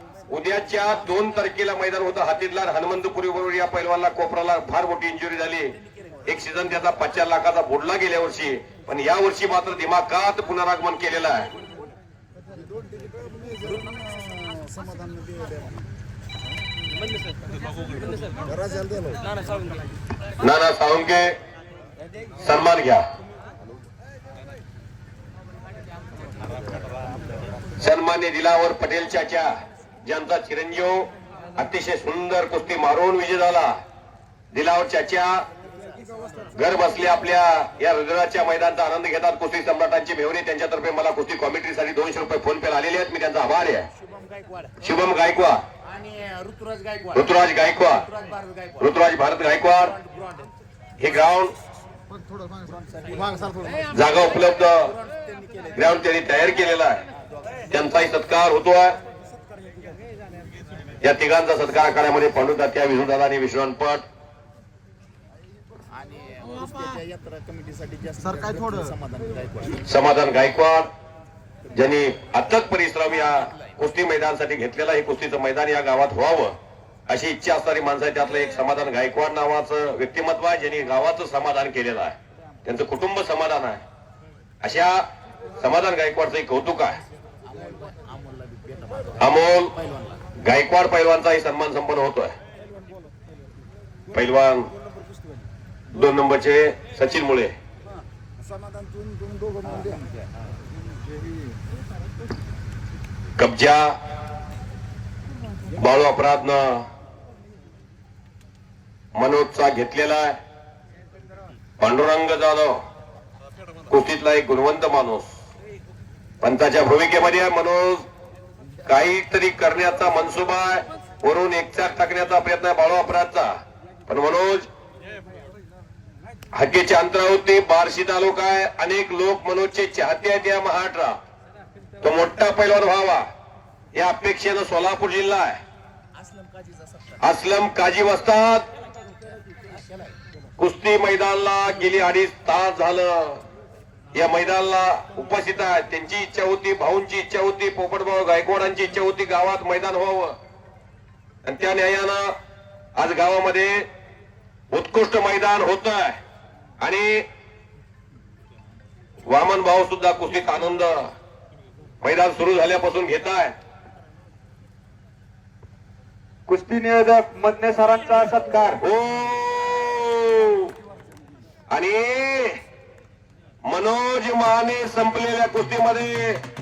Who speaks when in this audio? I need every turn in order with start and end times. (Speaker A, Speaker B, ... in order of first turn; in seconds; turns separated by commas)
Speaker A: 0.3-5.7, Speaker A: 6.2-11.5, Speaker B: 13.3-15.6, Speaker A: 20.4-21.4, Speaker A: 22.4-23.0, Speaker A: 27.8-29.5, Speaker A: 30.0-33.7, Speaker A: 34.5-35.4, Speaker A: 36.5-43.9, Speaker A: 44.8-45.6, Speaker B: 46.2-46.8, Speaker A: 47.1-48.1, Speaker A: 48.8-50.0, Speaker A: 51.0-51.5, Speaker A: 53.9-54.9, Speaker A: 55.7-57.0, Speaker A: 57.7-59.0, Speaker A: 61.0-64.0, Speaker B: 66.2-68.9, Speaker A: 69.8-70.9, Speaker A: 71.7-76.5, Speaker A: 77.1-83.8, Speaker A: 84.6-85.0, Speaker A: 85.6-87.0, Speaker A: 89.2-89.7, Speaker A: 90.4-92.3, Speaker A: 94.1-94.7, Speaker A: 95.9-97.5, Speaker A: 103.4-104.0, Speaker A: 105.7-106.8, Speaker A: 109.2-110.4, Speaker A: 111.8-112.8, Speaker A: 113.9-115.3, Speaker A: 116.4-118.0, Speaker A: 118.8-123.5, Speaker A: 124.1-124.7, Speaker A: 126.5-131.2, Speaker A: 132.0-133.2, Speaker A: 133.9-135.6, Speaker A: 137.2-138.7, Speaker A: 140.6-143.4, Speaker A: 144.1-150.3, Speaker A: 151.4-152.3, Speaker A: 152.9-153.9, Speaker A: 154.7-156.2, Speaker A: 156.8-157.2, Speaker A: 159.3-161.1, Speaker A: 162.0-163.5, Speaker C: 166.5-168.8, Speaker A: 168.8-170.7, Speaker A: 171.7-172.6, Speaker A: 173.7-176.4